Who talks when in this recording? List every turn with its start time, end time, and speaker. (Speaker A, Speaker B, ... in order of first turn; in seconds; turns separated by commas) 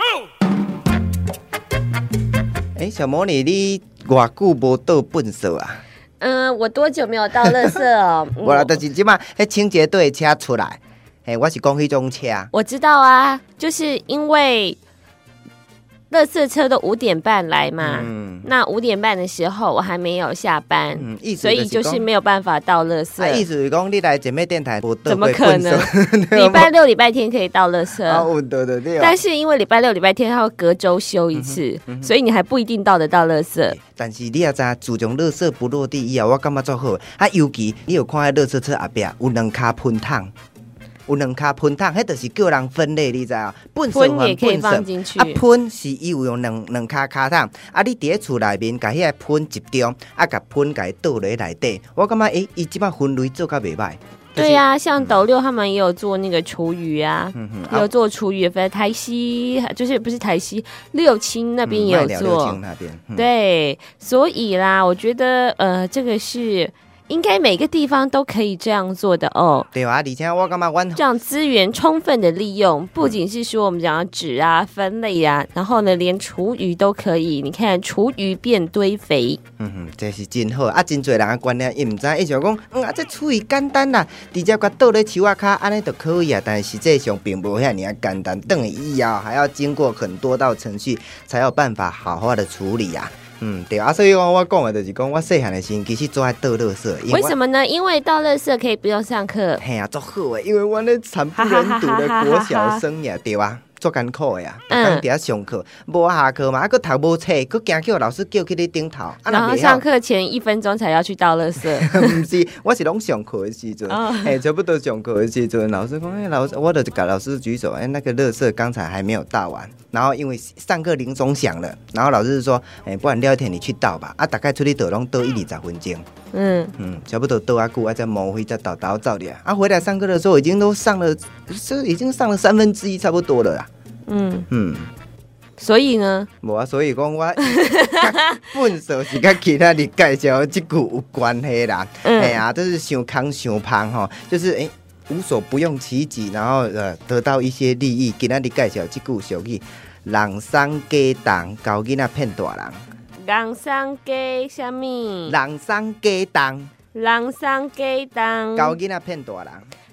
Speaker A: 2.8-5.8, Speaker B: 6.2-8.8, Speaker A: 7.4-7.8, Speaker A: 8.4-12.5, Speaker B: 12.5-14.8, Speaker B: 16.1-23.4, Speaker A: 17.8-18.5, Speaker A: 21.0-22.1, Speaker A: 23.2-26.7, Speaker B: 25.1-28.3, Speaker A: 28.1-29.2, Speaker B: 29.0-33.8, Speaker A: 31.4-32.1, Speaker A: 33.7-40.3, Speaker A: 41.1-55.2, Speaker B: 43.9-45.4, Speaker B: 54.4-62.6, Speaker A: 57.4-57.9, Speaker A: 61.6-63.3, Speaker B: 63.1-69.7, Speaker A: 69.7-71.0, Speaker B: 71.0-79.4, Speaker A: 79.6-97.3, Speaker B: 97.1-99.6, Speaker A: 99.6-109.8, Speaker B: 101.4-102.8, Speaker B: 104.7-105.0, Speaker B: 109.3-112.2, Speaker A: 111.7-126.0, Speaker B: 113.9-114.4, Speaker B: 126.3-126.7, Speaker A: 126.8-133.7, Speaker B: 134.1-134.5, Speaker A: 134.5-134.9, Speaker B: 135.6-136.3, Speaker A: 136.4-152.8, Speaker B: 137.4-138.1, Speaker B: 142.0-142.4, Speaker B: 153.2-155.4, Speaker A: 155.3-156.7, Speaker B: 156.9-158.8, Speaker A: 158.6-159.7